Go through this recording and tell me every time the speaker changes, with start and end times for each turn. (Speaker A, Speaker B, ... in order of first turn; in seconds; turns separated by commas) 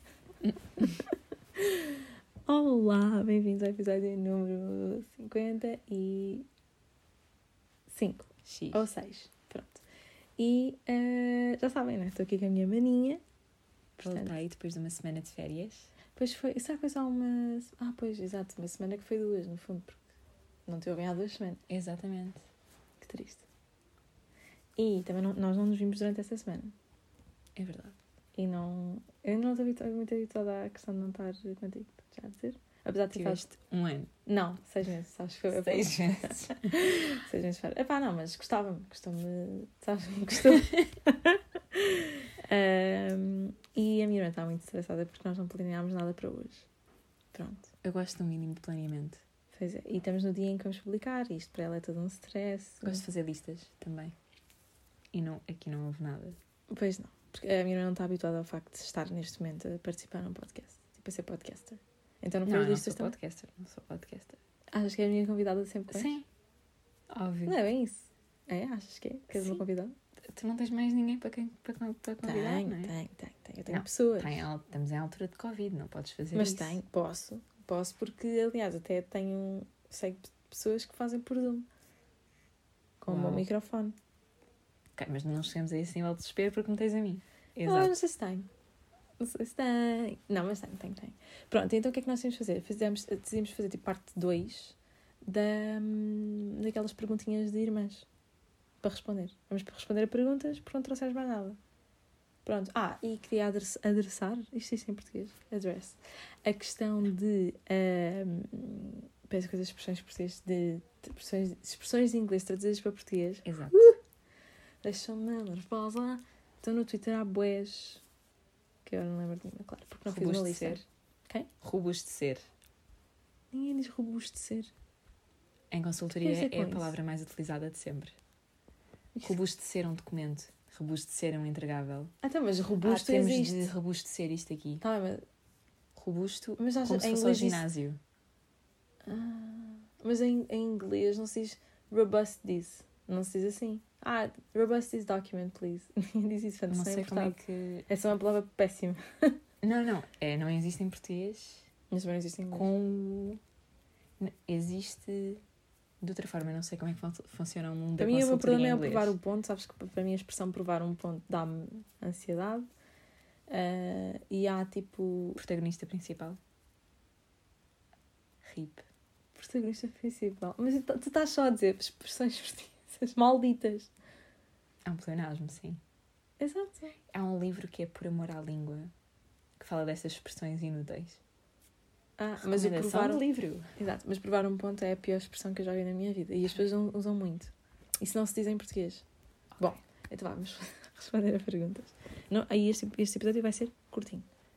Speaker A: 0.4-0.8, Speaker B: 1.6-6.5, Speaker B: 7.9-9.8, Speaker A: 8.4-8.8, Speaker B: 10.4-13.2, Speaker B: 14.0-14.3, Speaker A: 14.0-15.9, Speaker B: 16.1-20.0, Speaker B: 20.7-21.6, Speaker A: 21.7-22.4, Speaker B: 23.0-23.4, Speaker B: 24.8-26.7, Speaker A: 27.6-27.9, Speaker B: 28.4-33.4, Speaker A: 33.1-34.1, Speaker B: 34.2-46.7, Speaker A: 35.5-36.7, Speaker A: 40.5-40.8, Speaker B: 47.3-47.7, Speaker A: 47.8-49.2, Speaker B: 49.5-53.0, Speaker A: 52.8-54.1, Speaker A: 55.1-56.4, Speaker B: 56.7-63.1, Speaker A: 62.4-64.4, Speaker B: 64.7-66.1, Speaker A: 65.9-66.2, Speaker A: 67.1-67.6, Speaker B: 67.5-69.9, Speaker A: 69.3-69.6, Speaker A: 70.3-72.9, Speaker B: 72.2-74.4, Speaker A: 73.7-76.8, Speaker B: 76.3-81.7, Speaker B: 83.0-83.9, Speaker A: 83.1-83.5, Speaker A: 85.0-87.9, Speaker B: 87.6-88.5, Speaker B: 89.2-98.0, Speaker B: 98.8-101.6, Speaker B: 102.4-114.0, Speaker A: 113.4-113.9, Speaker B: 114.8-118.0, Speaker B: 118.8-121.5, Speaker A: 120.1-120.8, Speaker A: 121.6-122.5, Speaker B: 123.5-124.7, Speaker A: 125.7-128.2, Speaker B: 126.2-126.9, Speaker A: 129.2-132.1, Speaker B: 132.2-133.7, Speaker A: 132.8-134.8, Speaker B: 134.8-135.2, Speaker A: 135.9-138.0, Speaker B: 136.6-137.6, Speaker B: 139.1-147.3, Speaker A: 146.7-147.9, Speaker B: 147.9-149.3, Speaker A: 149.6-151.7, Speaker B: 151.9-152.7, Speaker A: 152.5-153.4, Speaker A: 154.2-155.4, Speaker A: 156.0-159.2, Speaker B: 158.0-162.7, Speaker B: 163.5-165.4, Speaker A: 165.3-166.4, Speaker A: 168.4-168.8, Speaker B: 169.3-173.9, Speaker A: 174.8-175.8, Speaker B: 176.4-177.0, Speaker A: 177.1-178.9, Speaker A: 179.6-181.2, Speaker B: 182.2-183.2, Speaker A: 182.4-183.7, Speaker B: 183.8-189.0, Speaker B: 189.6-194.2